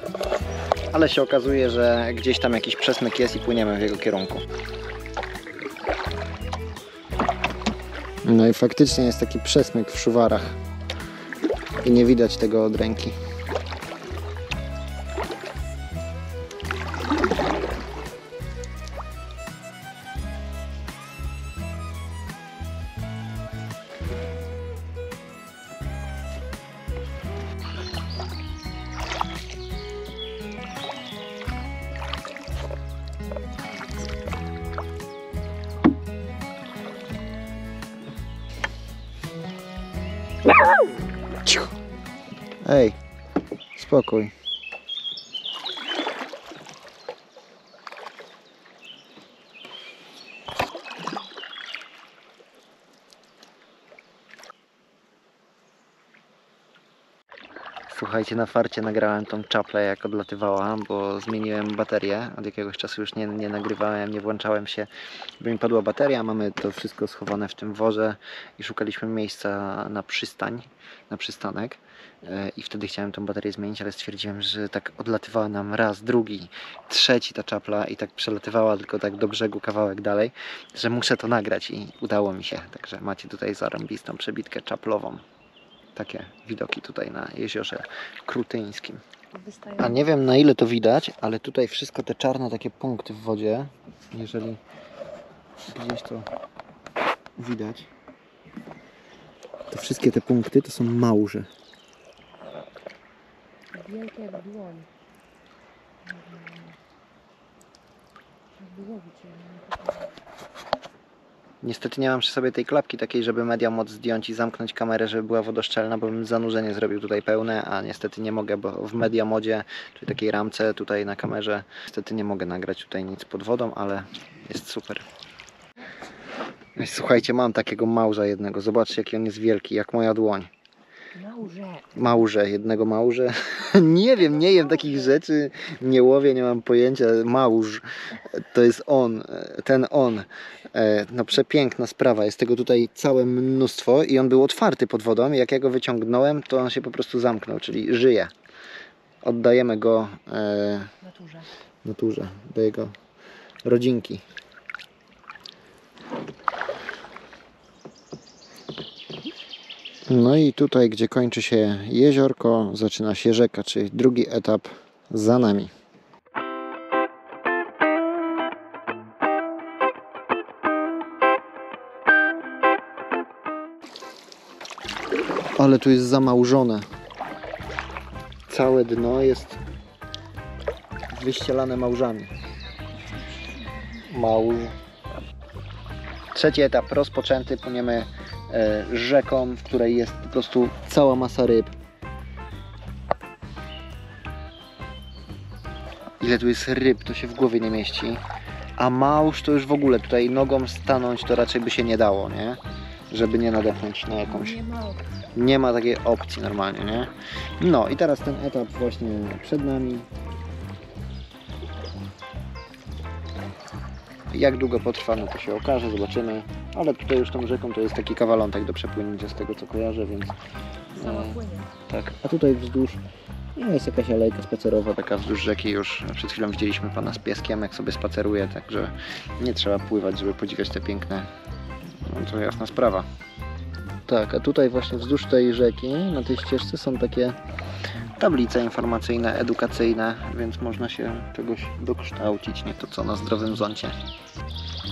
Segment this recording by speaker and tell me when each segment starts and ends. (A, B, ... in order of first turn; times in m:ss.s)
0:00.9-0:04.4 A
0:08.2-0:10.6 A
0:11.8-0:13.2 A
0:42.6-0:43.0 A
0:43.7-0:44.3 A
0:57.9-1:25.2 A
1:25.9-1:29.0 A
1:29.3-1:30.0 B
1:29.7-1:34.6 A
1:35.7-1:36.3 A
1:37.4-1:37.9 A
1:39.7-1:41.5 A
1:43.7-1:44.9 B
1:46.1-1:46.7 B
1:48.6-1:50.0 B
1:51.6-2:05.0 A
2:06.8-2:10.5 A
2:11.2-2:12.0 B
2:11.9-2:28.3 A
2:29.2-2:30.9 A
2:31.0-2:31.5 B
2:31.8-2:32.9 A
2:33.6-2:34.2 A
2:40.0-2:45.7 A
2:55.6-2:56.9 A
2:58.5-2:59.6 A
3:01.1-3:02.3 A
3:04.0-3:04.8 A
3:06.3-3:11.7 A
3:16.2-3:18.2 A
3:18.8-3:24.6 A
3:24.3-3:25.0 B
3:25.3-3:30.1 A
3:34.3-3:40.4 A
3:40.9-3:43.0 A
3:41.0-3:41.7 B
3:43.5-3:51.3 A
3:52.0-3:53.1 A
3:54.0-3:57.4 A
3:58.2-4:04.0 A